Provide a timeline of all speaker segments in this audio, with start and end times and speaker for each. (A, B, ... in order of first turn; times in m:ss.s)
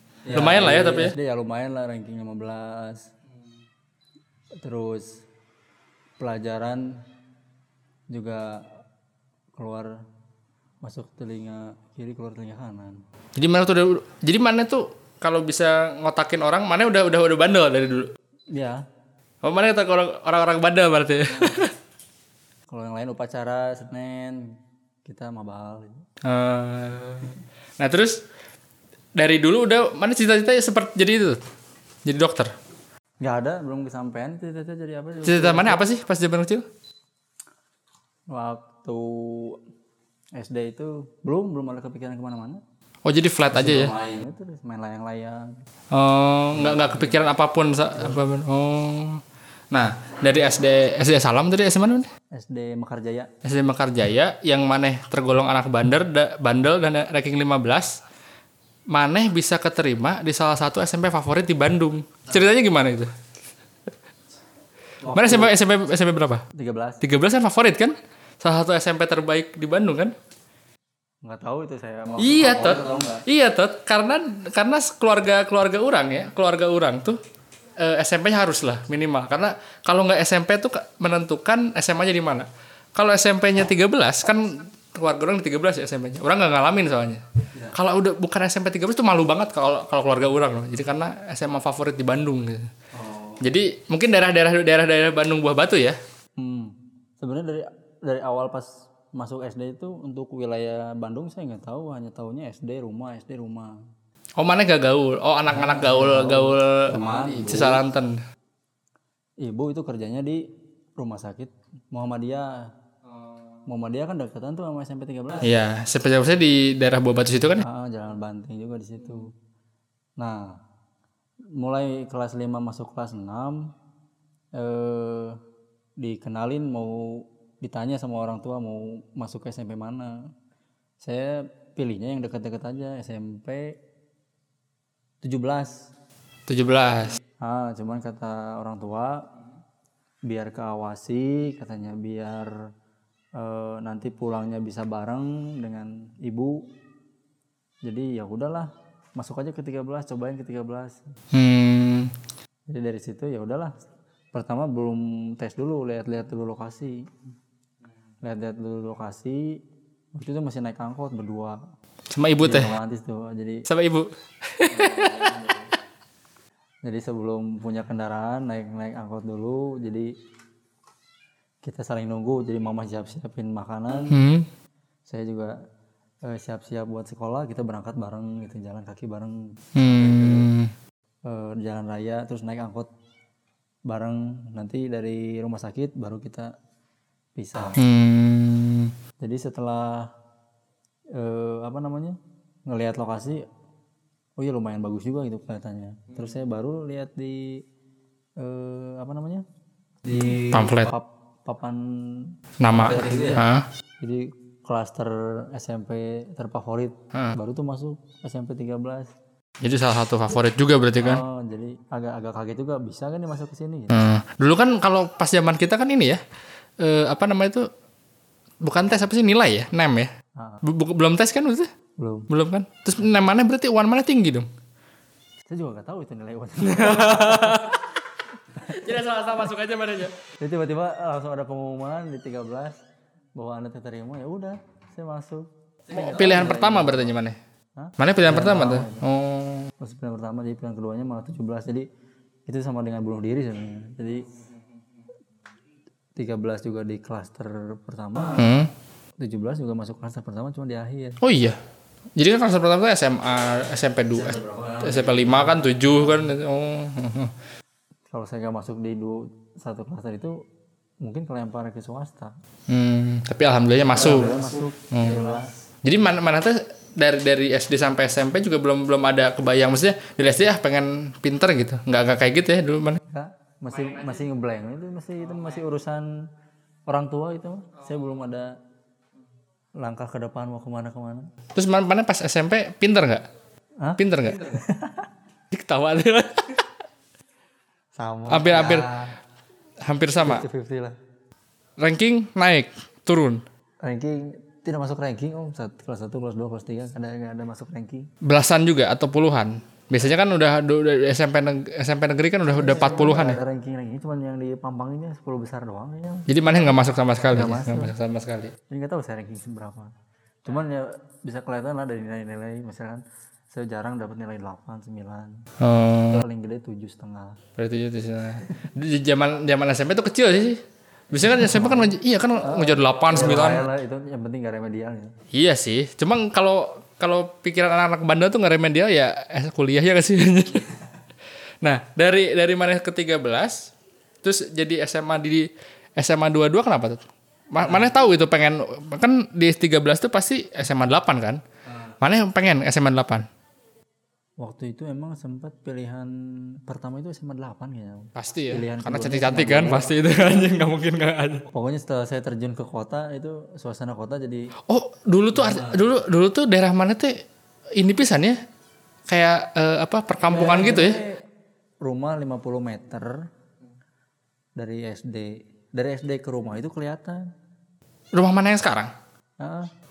0:00.2-0:03.1 A
0:00.3-0:01.2 B
0:04.6-0:05.2 A
0:06.2-0:07.0 A
0:08.1-0:08.7 A
0:09.5-0:10.0 A
0:10.8-0:13.0 A
0:13.4-0:18.1 B
0:18.5-0:18.8 A
0:19.4-0:21.7 B
0:21.3-0:21.7 A
0:22.7-0:26.0 A
0:26.2-0:28.2 B
0:29.2-0:31.4 B
0:32.0-0:32.5 B
0:33.2-0:35.8 A
0:35.2-0:36.6 B
0:38.3-0:39.6 A
0:40.4-0:42.6 A
0:43.0-0:43.9 B
0:43.5-0:45.5 A
0:45.9-0:52.1 B
0:46.5-0:47.3 A
0:52.3-0:53.3 A
0:53.4-0:58.0 B
0:58.9-1:03.1 B
1:05.0-1:05.5 A
1:05.1-1:06.4 B
1:06.5-1:07.0 A
1:07.0-1:10.1 B
1:11.2-1:13.2 A
1:12.2-1:17.2 B
1:17.8-1:32.7 B
1:32.9-1:33.4 A
1:33.4-1:36.0 B
1:36.4-1:43.8 A
1:44.4-1:48.2 B
1:45.5-1:47.8 A
1:49.4-1:50.4 A
1:51.0-1:52.5 A
1:53.6-1:55.5 A
1:55.4-1:57.6 B
1:57.6-1:59.3 A
2:00.2-2:00.6 A
2:01.5-2:03.7 A
2:04.5-2:05.4 A
2:06.0-2:10.3 A
2:11.0-2:13.8 A
2:15.2-2:15.9 A
2:16.5-2:17.2 B
2:17.4-2:19.3 A
2:20.2-2:22.5 A
2:23.3-2:26.7 A
2:27.8-2:31.0 A
2:31.3-2:32.1 B
2:32.7-2:33.7 A
2:34.3-2:37.1 A
2:38.2-2:39.6 A
2:40.1-2:41.6 A
2:42.1-2:42.7 B
2:42.4-2:43.6 A
2:43.7-2:45.3 B
2:44.7-2:45.7 A
2:46.8-2:50.1 A
2:51.6-2:54.2 A
2:54.1-2:54.5 B
2:55.0-2:55.5 A
2:56.2-3:00.5 A
2:59.7-3:00.7 B
3:01.2-3:02.9 A
3:03.9-3:06.5 A
3:07.4-3:07.8 A
3:07.8-3:08.9 B
3:09.2-3:10.1 A
3:11.1-3:13.4 A
3:14.4-3:17.6 A
3:18.4-3:19.4 A
3:20.0-3:23.5 A
3:20.5-3:20.9 B
3:22.6-3:23.6 B
3:24.0-3:29.1 A
3:29.6-3:31.2 B
3:31.0-3:34.1 A
3:33.9-3:36.2 B
3:36.8-3:37.7 B
3:38.6-3:40.1 B
3:40.4-3:40.6 A
3:40.6-3:41.7 B
3:42.0-3:42.3 A
3:42.3-3:44.5 B
3:45.4-3:47.8 A
3:46.6-3:47.8 B
3:48.6-3:48.9 A
3:48.6-3:50.1 B
3:50.4-3:52.8 A
3:53.3-3:57.1 A
3:55.9-3:57.4 B
3:57.8-3:59.0 A
3:58.0-3:59.7 B
3:59.8-4:01.9 A
4:02.4-4:04.3 A
4:06.1-4:08.5 A
4:08.3-4:08.7 B
4:09.2-4:11.2 A
4:11.2-4:11.6 B
4:12.2-4:17.3 B
4:14.1-4:16.1 A
4:18.1-4:20.3 A
4:21.0-4:22.3 A
4:22.7-4:24.4 B
4:23.9-4:25.5 A
4:24.9-4:33.0 B
4:33.1-4:36.1 A
4:36.9-4:38.5 A
4:39.8-4:41.3 A
4:41.5-4:43.2 B
4:43.8-4:45.1 A
4:44.0-4:44.6 B
4:45.5-4:46.6 B
4:47.9-4:49.2 A
4:48.3-4:49.0 B
4:49.8-4:50.4 B
4:50.2-4:51.0 A
4:51.8-4:53.4 B
4:53.8-4:58.1 A
4:58.2-5:03.4 B
5:02.5-5:06.3 A
5:06.3-5:08.5 B
5:07.2-5:07.9 A
5:08.7-5:15.4 A
5:15.6-5:16.2 B
5:16.1-5:17.4 A
5:17.6-5:23.7 B
5:21.1-5:25.1 A
5:25.3-5:30.8 B
5:31.6-5:33.7 B
5:34.2-5:41.4 B
5:37.6-5:37.9 A
5:42.0-5:43.3 B
5:44.4-5:50.1 A
5:48.2-5:51.4 B
5:51.5-5:54.5 A
5:54.7-5:57.1 B
5:55.3-5:55.8 A
5:57.8-5:58.4 B
5:59.1-6:01.0 B
6:00.3-6:01.2 A
6:01.8-6:03.2 A
6:04.6-6:07.3 A
6:08.1-6:08.9 B
6:09.4-6:09.7 A